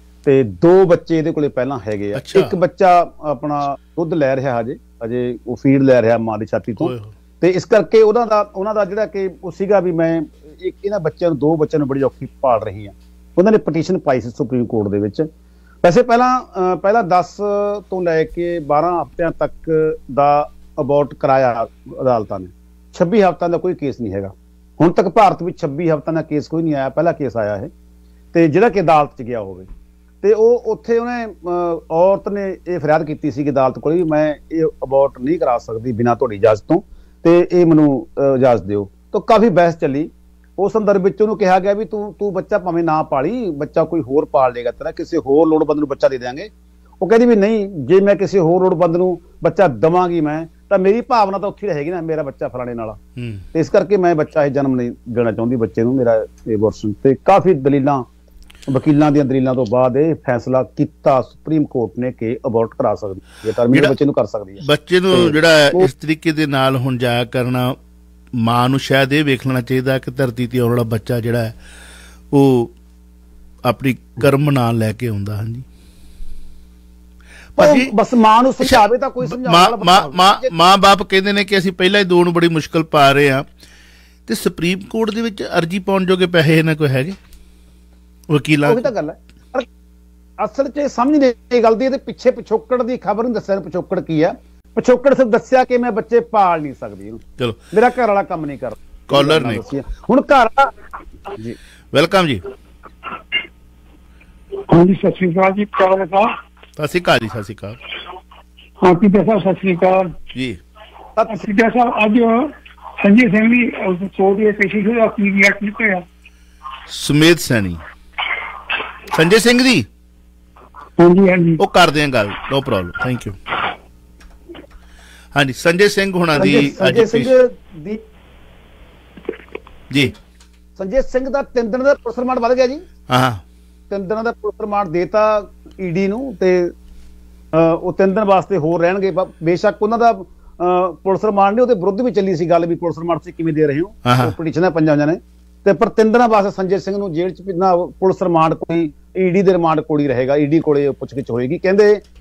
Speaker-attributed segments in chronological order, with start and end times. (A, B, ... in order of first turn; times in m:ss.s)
0:00.2-0:15.3 A
0:02.1-0:02.6 B
0:06.8-0:07.1 B
0:15.8-0:27.7 A
0:28.3-0:29.7 A
0:30.2-0:46.5 A
0:47.0-0:53.0 A
0:53.2-0:53.4 B
0:53.5-0:58.1 A
0:58.7-1:05.9 A
1:04.6-1:07.8 B
1:08.4-1:11.6 B
1:12.3-1:12.7 B
1:13.6-1:15.7 B
1:17.6-1:17.9 B
1:17.6-1:20.5 A
1:18.6-1:23.5 B
1:24.3-1:27.2 B
1:28.3-1:28.9 B
1:28.6-1:29.7 A
1:30.4-1:37.2 A
1:37.7-1:40.7 A
1:39.1-1:39.6 B
1:41.9-1:42.4 B
1:44.7-1:46.3 C
1:46.8-1:47.8 B
1:48.8-1:50.1 C
1:50.3-1:50.6 B
1:51.2-1:51.5 A
1:51.3-1:56.1 C
1:56.9-1:57.8 B
1:59.1-1:59.9 B
2:01.0-2:01.6 C
2:01.6-2:03.4 B
2:05.3-2:07.3 B
2:06.4-2:08.0 A
2:09.9-2:10.2 B
2:10.8-2:12.8 A
2:13.1-2:13.4 B
2:13.9-2:16.7 A
2:17.5-2:32.0 A
2:24.0-2:24.3 B